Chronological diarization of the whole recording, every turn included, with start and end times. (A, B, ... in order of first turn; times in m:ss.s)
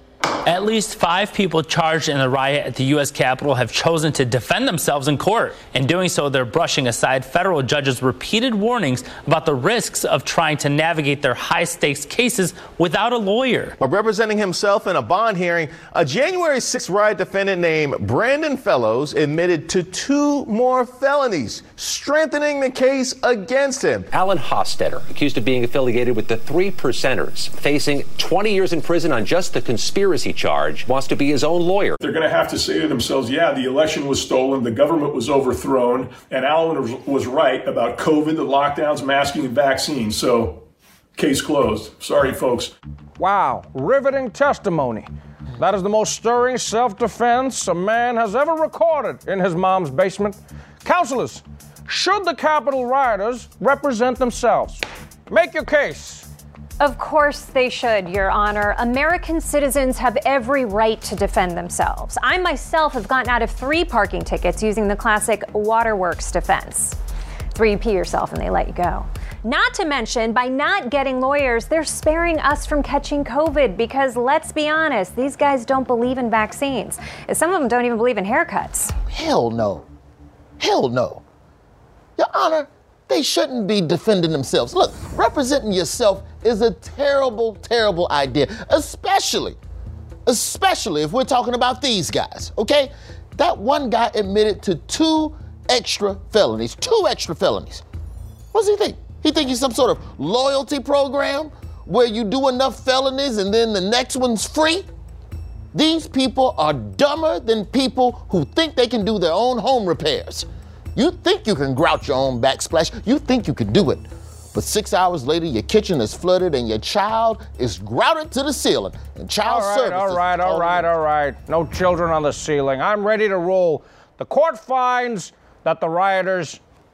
0:00.4-0:13.7 A
0:13.8-0:24.1 B
0:24.1-0:32.0 C
0:32.0-0:40.6 D
0:41.2-0:42.7 D
0:43.2-0:56.3 E
0:56.8-1:07.0 F
1:07.5-1:18.9 F
1:19.1-1:19.8 G
1:20.6-1:21.2 G
1:22.2-1:29.6 G
1:30.2-1:37.8 G
1:38.5-1:44.9 G
1:45.7-2:00.9 G
1:59.4-2:06.6 E